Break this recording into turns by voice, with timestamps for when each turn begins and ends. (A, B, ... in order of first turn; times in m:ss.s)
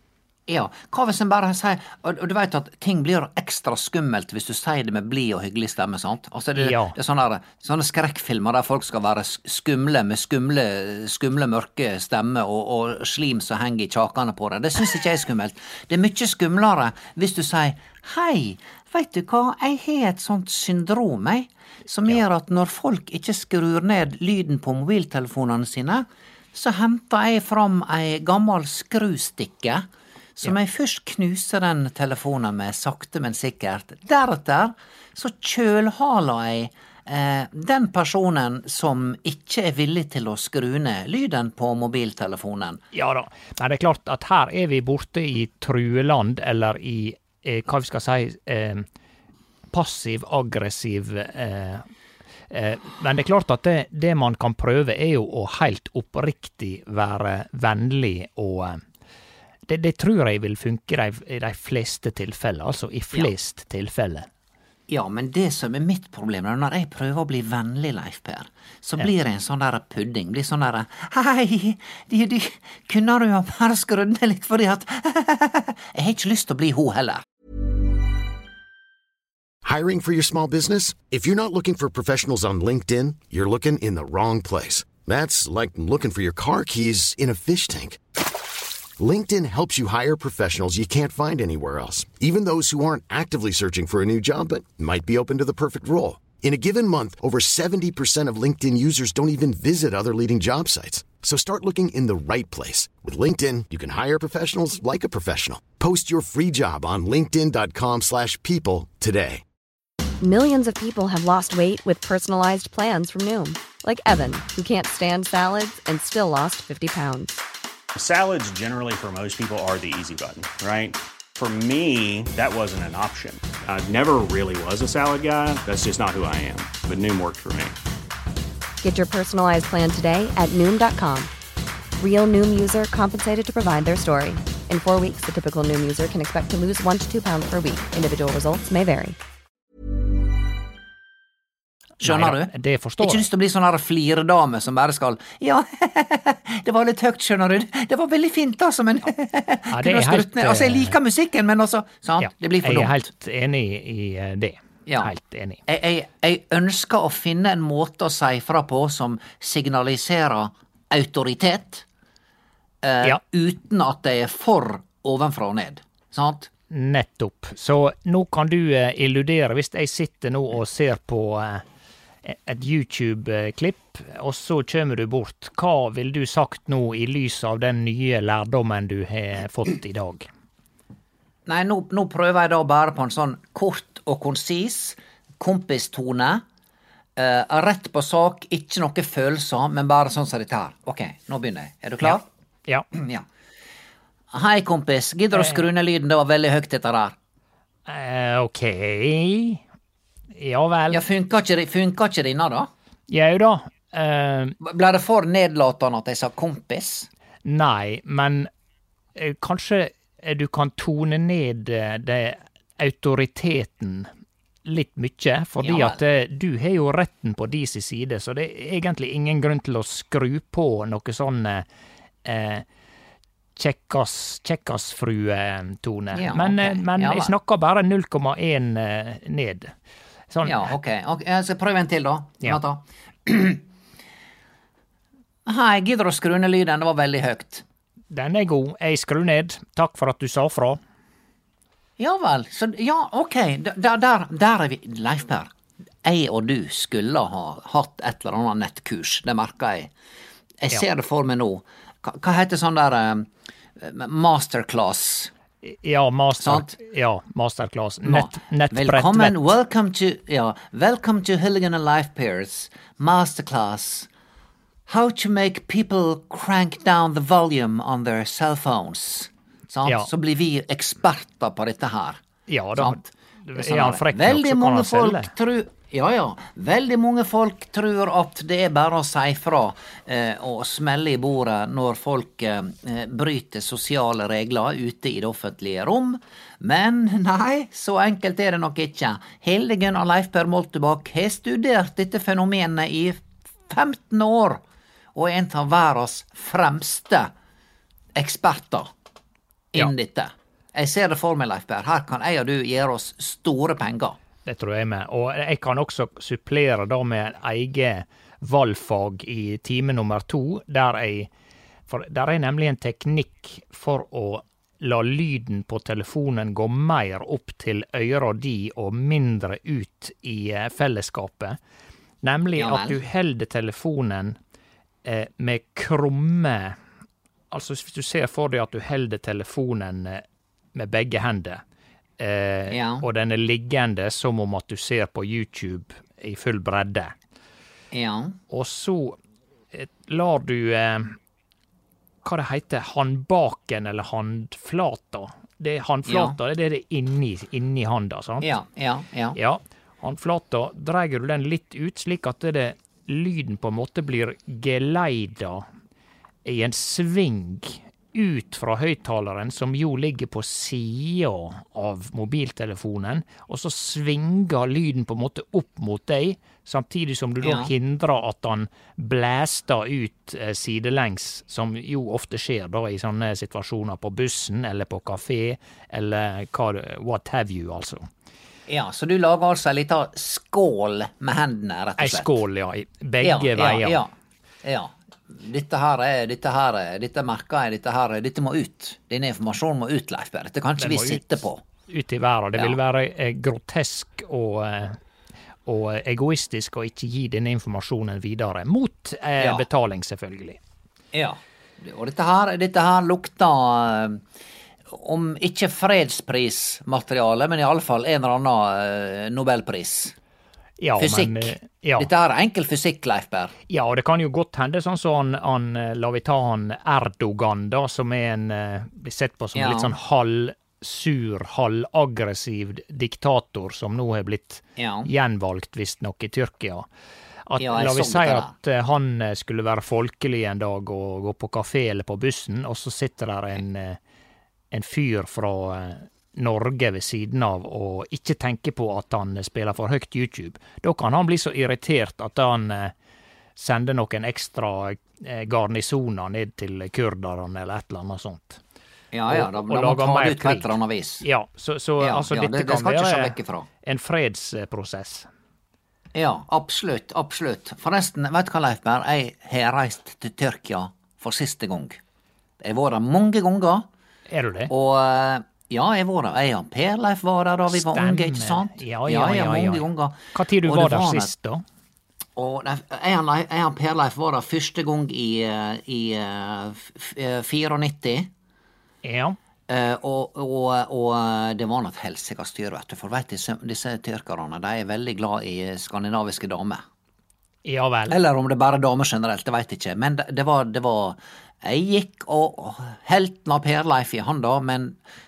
0:00.5-0:42.8 A
0:06.5-0:07.0 B
0:42.9-0:48.8 B
0:49.7-0:51.8 B
0:52.5-0:58.8 B
0:59.7-1:04.3 B
1:04.9-1:17.2 A
1:19.6-1:28.0 C
1:29.0-1:49.4 C
1:50.2-1:57.4 D
1:57.9-2:07.8 E
2:08.8-2:11.3 D
2:12.0-2:19.2 D
2:22.0-2:33.0 A
2:22.0-2:23.3 B
2:29.7-2:31.0 B
2:32.2-2:35.6 B
2:35.7-2:41.8 A
2:42.8-2:46.5 A
2:46.7-2:51.6 B
2:52.2-3:00.2 B
3:01.4-3:06.4 A
3:07.2-3:12.2 A
3:12.0-3:12.9 B
3:12.9-3:13.2 A
3:14.3-3:17.2 A
3:15.3-3:15.6 B
3:17.9-3:19.6 B
3:20.3-3:21.0 B
3:20.9-3:22.7 A
3:23.1-3:24.5 B
3:24.6-3:27.1 A
3:27.4-3:28.5 B
3:29.1-3:34.1 B
3:34.6-3:41.6 B
3:35.6-3:36.0 A
3:42.2-3:42.6 B
3:43.6-3:49.7 B
3:46.1-3:47.3 A
3:50.3-3:50.7 B
3:50.4-3:53.6 A
3:55.4-3:57.6 A
3:58.1-4:00.8 B
4:02.0-4:05.5 A
4:06.0-4:09.9 A
4:10.6-4:15.3 A
4:15.6-4:19.5 B
4:16.4-4:16.7 A
4:18.0-4:24.1 A
4:24.9-4:32.2 A
4:32.5-4:35.3 B
4:32.8-4:54.6 A
4:55.1-4:57.3 A
4:58.2-4:58.9 A
4:59.7-5:04.2 A
5:04.4-5:11.3 B
5:11.9-5:21.6 B
5:22.2-5:24.4 B
5:22.6-5:23.0 A
5:25.0-5:26.8 B
5:27.5-5:30.2 B
5:30.7-5:31.6 B
5:32.2-5:37.1 B
5:32.7-5:33.0 A
5:37.9-5:38.4 A
5:38.5-5:39.2 B
5:39.7-5:41.2 B
5:42.2-5:48.5 B
5:46.1-5:46.4 A
5:48.4-5:49.4 A
5:49.4-5:55.6 B
5:56.4-6:18.0 B
6:07.4-6:07.7 A
6:18.7-6:22.3 A
6:22.0-6:24.0 B
6:23.2-6:24.1 A
6:24.6-6:31.6 A
6:30.8-6:35.0 B
6:35.6-6:40.6 B
6:39.4-6:39.6 A
6:41.1-6:44.2 A
6:44.9-6:50.1 A
6:50.8-6:52.1 B
6:51.0-6:53.5 A
6:53.7-7:06.9 B
6:59.6-6:59.9 A
7:04.8-7:05.1 A
7:07.5-7:14.0 B
7:07.6-7:08.5 A
7:14.7-7:22.9 B
7:23.6-7:28.6 B
7:29.1-7:31.2 A
7:29.3-7:35.3 B
7:32.0-7:33.7 A
7:36.1-7:42.0 A
7:42.6-7:43.8 A
7:44.3-7:44.7 B
7:44.7-7:51.3 A
7:47.7-7:51.6 B
7:52.4-7:58.3 A
7:59.0-7:59.4 B
7:59.7-8:06.8 A
8:07.6-8:08.1 B
8:08.1-8:15.0 A